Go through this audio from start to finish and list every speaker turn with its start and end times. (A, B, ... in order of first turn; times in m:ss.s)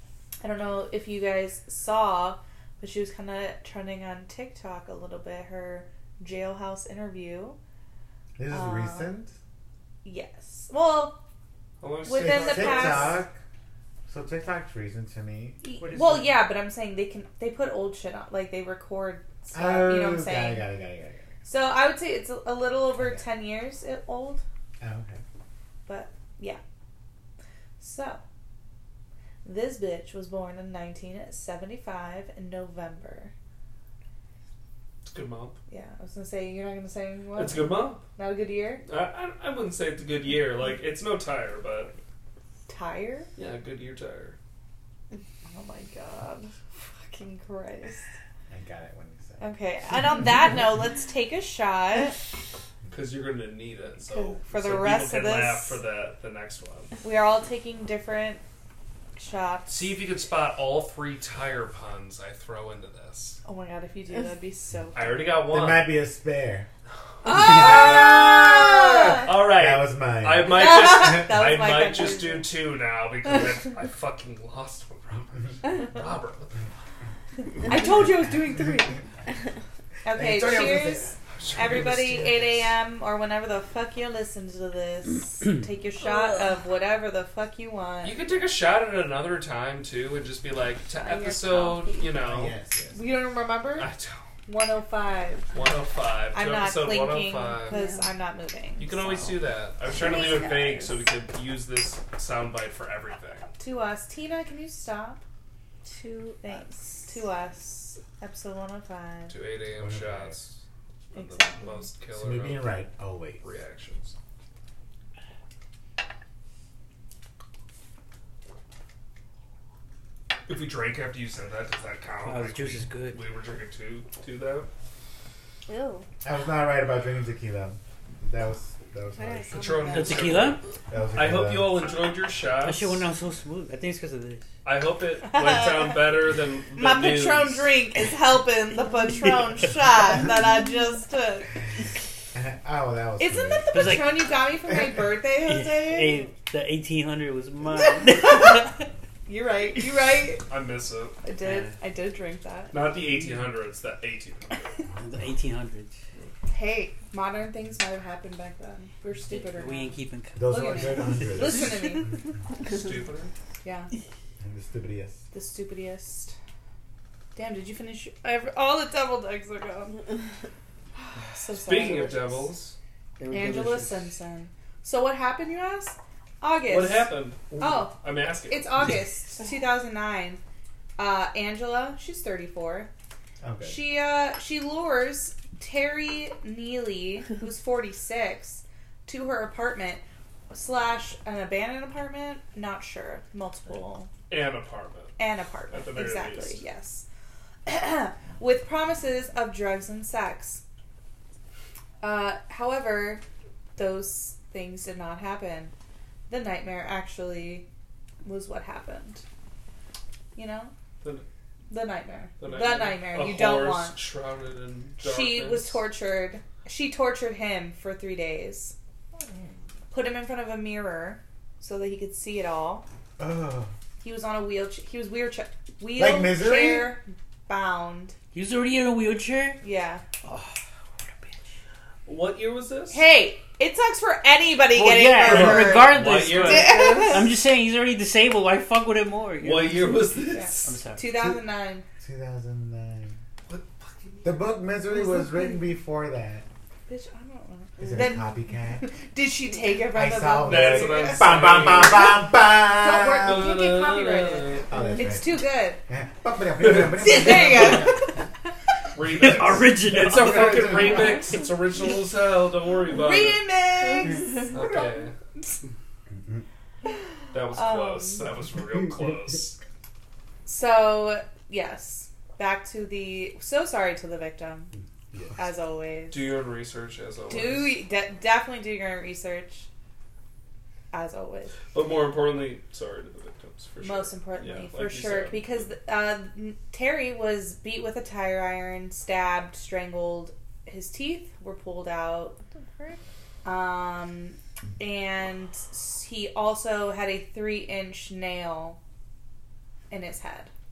0:00.4-0:07.6 A
0:08.4-0:09.4 B
0:08.5-0:09.2 A
0:10.0-0:11.2 A
0:11.8-0:13.2 C
0:12.1-0:13.2 A
0:12.1-0:13.4 B
0:14.1-0:15.6 B
0:15.6-0:20.7 A
0:15.8-0:16.4 D
0:19.5-0:21.3 B
0:21.4-0:24.4 A
0:23.0-0:23.3 B
0:24.8-0:25.2 B
0:25.9-0:26.6 A
0:27.8-0:28.2 A
0:29.4-0:33.3 A
0:35.1-0:35.6 C
0:35.7-0:38.8 A
0:37.3-0:38.0 C
0:38.8-0:42.0 C
0:42.7-0:43.3 A
0:43.4-0:44.4 C
0:45.5-0:48.1 A
0:48.5-0:49.4 B
0:49.4-0:52.2 A
0:52.9-0:57.0 C
0:54.0-0:55.8 A
0:57.0-0:58.4 A
0:59.2-1:00.0 A
0:59.7-1:03.4 C
1:03.4-1:05.3 A
1:04.9-1:06.0 C
1:05.5-1:06.7 B
1:07.2-1:09.3 A
1:07.4-1:11.1 B
1:07.4-1:16.6 C
1:10.4-1:12.5 A
1:17.6-1:19.0 A
1:20.0-1:28.4 A
1:20.1-1:22.4 B
1:21.4-1:22.5 C
1:26.0-1:26.5 E
1:28.0-1:33.0 C
1:30.9-1:32.1 A
1:32.2-1:32.9 B
1:32.9-1:33.9 A
1:33.8-1:34.3 C
1:34.5-1:35.5 A
1:35.5-1:37.8 C
1:36.3-1:39.4 A
1:37.6-1:38.1 E
1:38.8-1:43.5 C
1:39.9-1:41.1 E
1:43.6-1:45.2 A
1:45.8-1:47.1 E
1:46.4-1:49.3 A
1:49.3-1:50.6 C
1:49.8-1:50.4 B
1:51.1-1:52.8 C
1:51.1-1:51.9 A
1:52.1-1:53.4 B
1:53.4-1:54.2 C
2:00.5-2:04.7 C
2:02.2-2:03.2 D
2:05.7-2:06.1 E
2:06.2-2:09.9 B
2:09.2-2:10.4 E
2:09.5-2:10.6 C
2:09.9-2:10.6 D
2:10.9-2:11.9 B
2:11.1-2:13.1 C
2:12.6-2:14.5 D
2:14.6-2:17.8 C
2:15.3-2:16.1 A
2:16.8-2:21.5 A
2:22.3-2:24.0 B
2:23.2-2:26.3 A
2:23.7-2:24.4 D
2:25.4-2:28.8 D
2:27.8-2:28.7 A
2:29.3-2:30.5 A
2:30.5-2:31.2 C
2:31.2-2:32.8 A
2:31.4-2:31.8 D
2:32.7-2:34.6 C
2:35.0-2:36.0 D
2:36.5-2:42.3 A
2:39.3-2:41.8 D
2:40.4-2:41.8 B
2:42.6-2:43.3 C
2:43.6-2:43.9 A
2:44.4-2:45.2 B
2:45.3-2:46.4 A
2:47.4-2:50.0 A
2:51.3-2:52.6 A
2:51.6-2:52.8 C
2:53.2-2:54.1 D
2:53.3-2:58.0 A
2:56.7-2:58.8 C
2:58.5-3:00.4 A
3:01.0-3:02.9 A
3:03.4-3:03.8 B
3:03.6-3:14.1 A
3:14.3-3:15.2 C
3:15.2-3:17.1 A
3:15.7-3:16.6 C
3:17.7-3:20.6 A
3:22.0-3:23.2 A
3:23.8-3:25.7 A
3:26.3-3:27.6 A
3:28.2-3:29.2 A
3:30.4-3:30.7 A
3:31.7-3:34.0 A
3:32.4-3:35.9 C
3:35.0-3:38.8 A
3:39.9-3:42.8 A
3:43.2-3:43.7 B
3:44.0-3:48.2 A
3:46.0-3:47.0 B
3:48.3-3:49.6 D
3:49.6-3:50.0 A
3:50.2-3:51.4 D
3:52.1-3:53.1 C
3:52.9-3:57.2 A
3:54.7-4:00.1 D
3:55.2-3:57.2 C
3:59.4-4:00.8 C
4:00.3-4:01.8 A
4:00.6-4:01.2 D
4:02.0-4:03.2 B
4:03.5-4:04.5 C
4:04.2-4:06.4 B
4:04.9-4:05.6 A
4:06.9-4:15.8 A
4:07.8-4:08.9 B
4:09.9-4:13.6 B
4:10.4-4:12.2 C
4:13.1-4:14.7 C
4:14.7-4:18.1 B
4:14.7-4:15.0 E
4:16.8-4:18.3 A
4:18.9-4:23.4 C
4:19.1-4:21.2 D
4:20.1-4:21.2 B
4:22.9-4:25.6 A
4:24.0-4:24.5 E
4:24.5-4:25.2 C
4:26.1-4:26.4 B
4:26.8-4:28.2 A
4:27.3-4:29.6 C
4:30.5-4:34.7 A
4:35.1-4:35.4 B
4:35.4-4:36.3 A
4:36.1-4:37.8 C
4:37.3-4:39.7 A
4:40.9-4:41.6 A
4:41.7-4:45.7 C
4:43.8-4:52.4 A
4:52.4-4:53.0 E
4:53.4-4:58.8 A
4:59.9-5:00.5 A